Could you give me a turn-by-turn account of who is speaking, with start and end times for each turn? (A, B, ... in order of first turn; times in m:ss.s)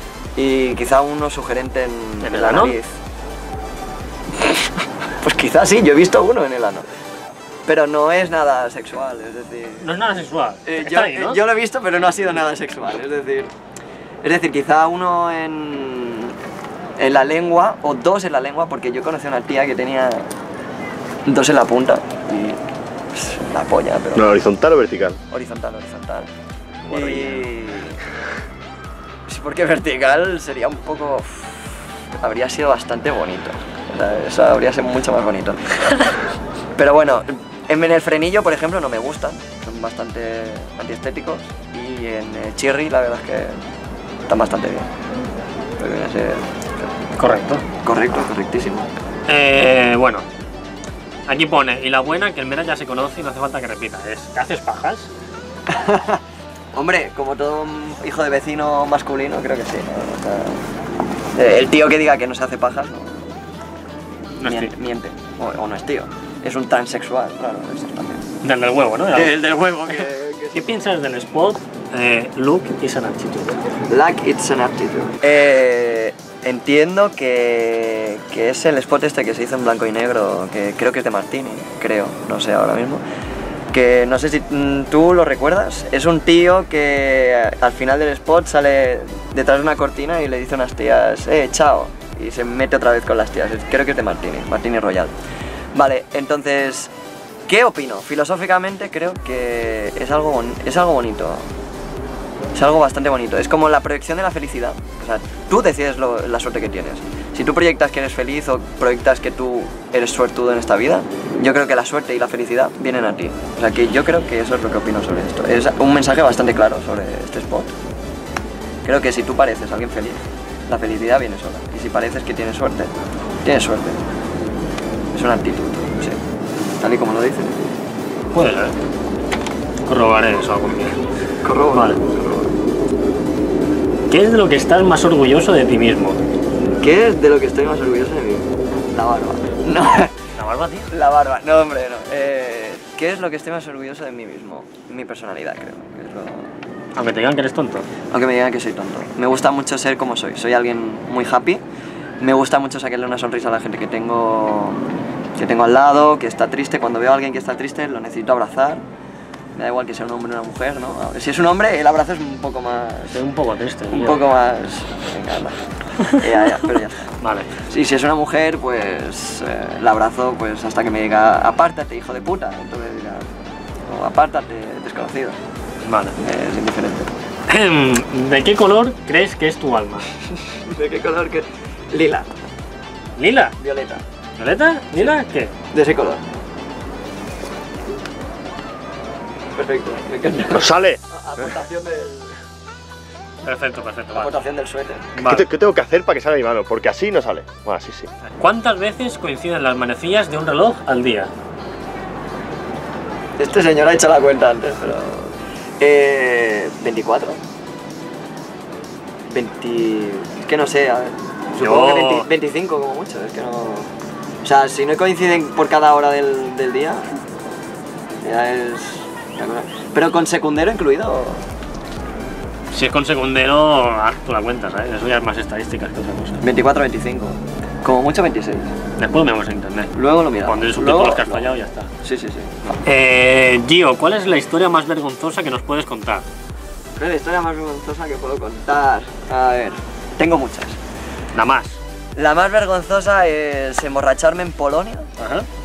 0:00.4-0:03.0 A
0:02.2-0:02.8 B
0:04.4-0:06.9 A
0:07.7-0:09.9 A
0:09.8-0:11.4 B
0:10.6-0:13.5 A
0:14.2-0:16.4 A
0:17.0-0:20.3 A
0:21.3-0:22.6 A
0:23.1-0:24.3 A
0:24.2-0:25.2 C
0:25.3-0:26.3 A
0:26.9-0:28.0 A
0:26.9-0:27.4 B
0:29.3-0:36.1 A
0:36.8-0:43.6 A
0:44.3-0:44.9 A
0:45.8-0:47.1 A
0:47.2-0:47.6 B
0:47.6-0:48.9 A
0:49.3-0:50.2 B
0:51.3-0:55.1 B
0:55.7-0:56.2 A
0:56.7-1:00.6 A
1:01.3-1:03.4 A
1:04.4-1:04.7 B
1:04.4-1:08.3 A
1:08.4-1:09.4 B
1:09.1-1:10.7 A
1:10.5-1:13.6 B
1:13.9-1:23.0 A
1:23.7-1:35.1 A
1:35.7-1:36.9 A
1:37.5-1:41.5 A
1:42.5-1:57.8 A
1:58.8-2:02.9 A
2:03.4-2:04.0 A
2:05.1-2:06.2 A
2:06.8-2:07.8 A
2:08.3-2:08.8 B
2:09.9-2:11.0 B
2:11.4-2:12.6 A
2:11.7-2:12.0 B
2:14.1-2:16.2 B
2:16.8-2:20.1 A
2:20.4-2:20.9 B
2:20.9-2:26.5 A
2:27.0-2:27.9 B
2:28.1-2:31.6 A
2:32.2-2:38.8 A
2:39.6-2:43.2 A
2:43.1-2:44.3 B
2:43.9-2:55.4 A
2:47.2-2:47.5 B
2:55.8-2:56.2 B
2:56.2-2:57.1 A
2:57.5-3:00.1 B
3:00.5-3:02.3 A
3:03.2-3:03.6 B
3:03.6-3:04.0 A
3:04.4-3:05.5 B
3:05.7-3:06.2 A
3:09.6-3:12.4 A
3:10.5-3:11.0 C
3:13.4-3:14.4 B
3:14.1-3:15.2 A
3:15.2-3:15.4 B
3:15.2-3:18.1 C
3:18.2-3:21.3 B
3:23.4-3:27.4 A
3:29.3-3:33.9 A
3:31.6-3:32.3 B
3:34.4-3:37.1 A
3:38.2-3:41.5 A
3:42.7-3:46.4 B
3:46.4-3:48.8 A
3:49.0-3:51.9 B
3:49.9-3:52.8 A
3:52.8-3:56.3 B
3:57.0-4:00.8 A
4:01.3-4:01.8 B
4:02.2-4:05.1 A
4:05.2-4:05.5 B